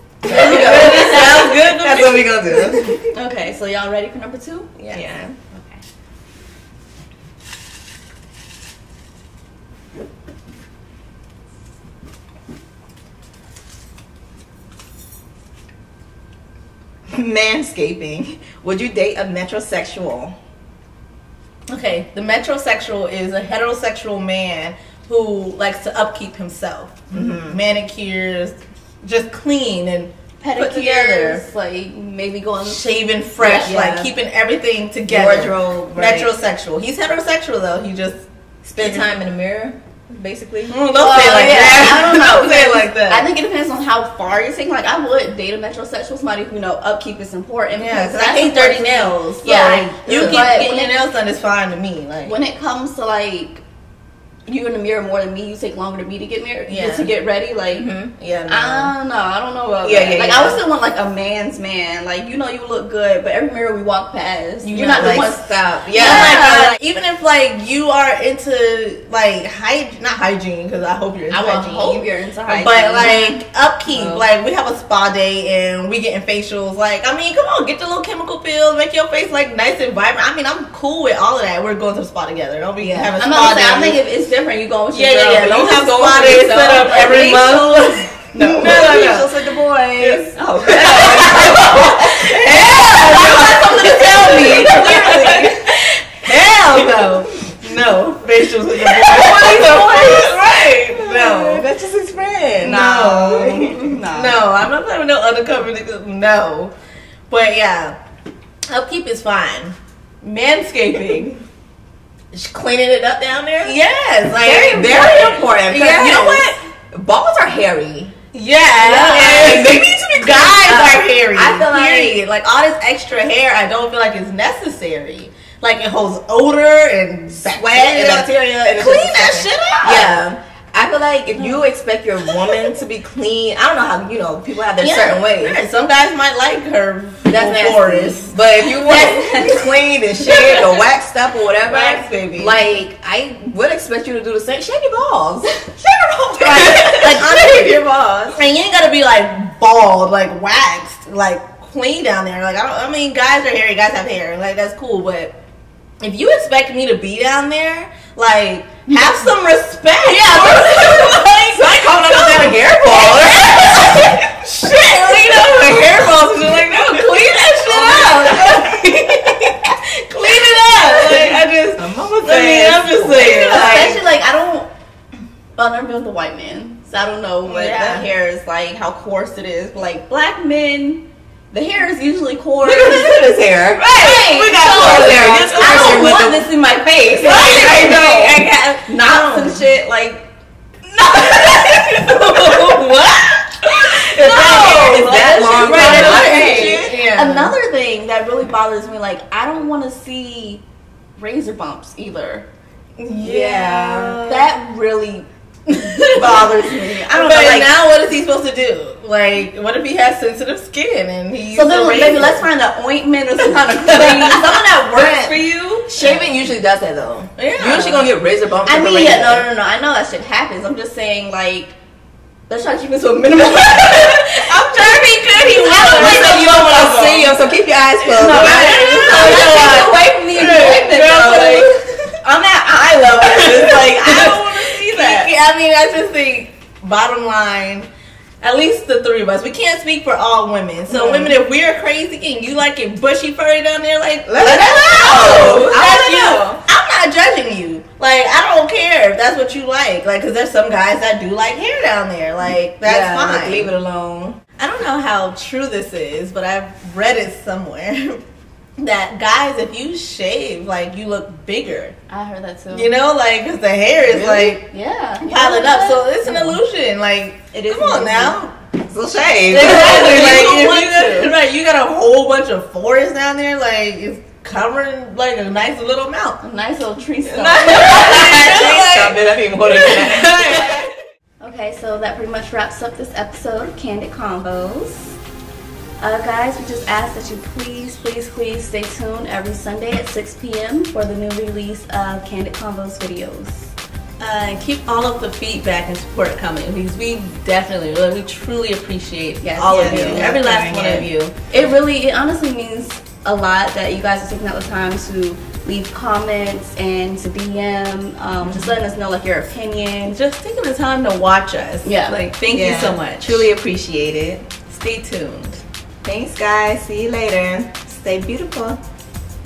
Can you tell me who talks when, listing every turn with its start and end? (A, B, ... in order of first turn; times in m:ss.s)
0:00.2-0:02.9 A
0:00.2-0:03.0 B
0:00.4-0:01.4 C
0:03.1-0:04.8 C
0:04.9-0:05.4 B
0:05.5-0:05.8 C
0:17.1-0:20.4 B
0:21.7-0:31.4 A
0:27.1-0:27.6 B
0:30.4-0:32.8 C
0:32.6-0:38.2 A
0:33.4-0:33.9 C
0:33.6-0:34.1 B
0:35.1-0:36.3 B
0:38.7-0:41.6 B
0:38.8-0:39.1 A
0:40.7-0:43.3 A
0:40.9-0:51.0 C
0:47.8-0:52.3 A
0:49.7-0:50.5 B
0:52.2-0:53.6 C
0:54.5-0:57.9 C
0:56.7-0:57.1 A
0:57.8-0:58.9 A
0:58.5-1:06.8 C
1:00.1-1:00.6 B
1:04.7-1:06.6 B
1:04.8-1:05.3 A
1:05.9-1:24.0 A
1:11.3-1:13.4 C
1:13.9-1:14.2 C
1:22.8-1:23.1 B
1:23.2-1:29.0 C
1:24.9-1:29.4 A
1:28.5-1:30.3 B
1:30.0-1:46.7 A
1:30.3-1:36.0 C
1:33.0-1:35.0 B
1:39.1-1:40.3 C
1:39.4-1:40.2 B
1:41.0-1:42.6 B
1:42.6-1:44.4 C
1:47.3-1:48.0 A
1:48.7-1:51.4 A
1:52.3-1:53.8 B
1:53.6-1:56.6 A
1:54.5-1:58.1 B
1:58.3-2:10.2 A
1:58.8-2:02.2 B
2:07.4-2:15.6 B
2:12.3-2:12.6 A
2:14.8-2:20.8 A
2:17.3-2:19.6 B
2:19.0-2:19.6 C
2:20.2-2:27.8 B
2:21.6-2:22.6 A
2:26.4-2:35.3 A
2:36.0-2:54.0 A
2:38.9-2:39.3 C
2:40.4-2:40.6 C
2:41.0-2:44.0 B
2:46.7-2:49.4 C
2:47.8-2:48.2 B
2:50.8-2:54.0 B
2:53.2-2:54.7 C
2:55.6-3:10.3 C
2:57.4-2:58.1 A
3:02.6-3:03.8 B
3:03.8-3:06.2 A
3:04.6-3:06.5 B
3:07.2-3:09.6 A
3:07.3-3:08.5 B
3:11.0-3:13.1 C
3:11.1-3:17.6 A
3:13.6-3:20.6 C
3:14.2-3:17.0 B
3:21.2-3:22.5 C
3:23.0-3:24.5 A
3:23.2-3:25.3 C
3:25.7-3:32.4 A
3:25.9-3:27.7 C
3:31.5-3:36.2 C
3:34.0-3:39.5 B
3:36.0-3:36.3 A
3:37.4-3:38.1 A
3:38.6-3:41.8 C
3:42.5-3:47.3 C
3:44.0-3:52.1 A
3:45.9-3:49.7 B
3:48.2-3:51.7 C
3:52.2-3:55.3 C
3:53.1-3:57.9 A
3:58.4-4:13.7 A
4:01.0-4:01.3 B
4:04.3-4:06.6 B
4:05.0-4:05.7 C
4:12.8-4:14.4 B
4:14.6-4:18.2 A
4:18.8-4:22.0 A
4:22.1-4:22.9 C
4:22.7-4:24.7 A
4:24.1-4:26.6 C
4:25.2-4:28.6 A
4:27.5-4:28.4 C
4:28.9-4:30.6 B
4:29.5-4:36.4 A
4:29.5-4:31.3 C
4:36.4-4:38.5 C
4:37.4-4:40.9 B
4:37.4-4:40.8 A
4:41.4-4:45.2 C
4:46.0-4:53.7 C
4:54.2-5:01.5 A
4:59.4-5:00.5 C
4:59.7-5:01.1 B
5:01.4-5:10.2 C
5:08.4-5:08.7 A
5:10.1-5:13.5 A
5:11.8-5:12.3 C
5:12.5-5:14.6 B
5:14.6-5:15.6 A
5:16.0-5:18.8 B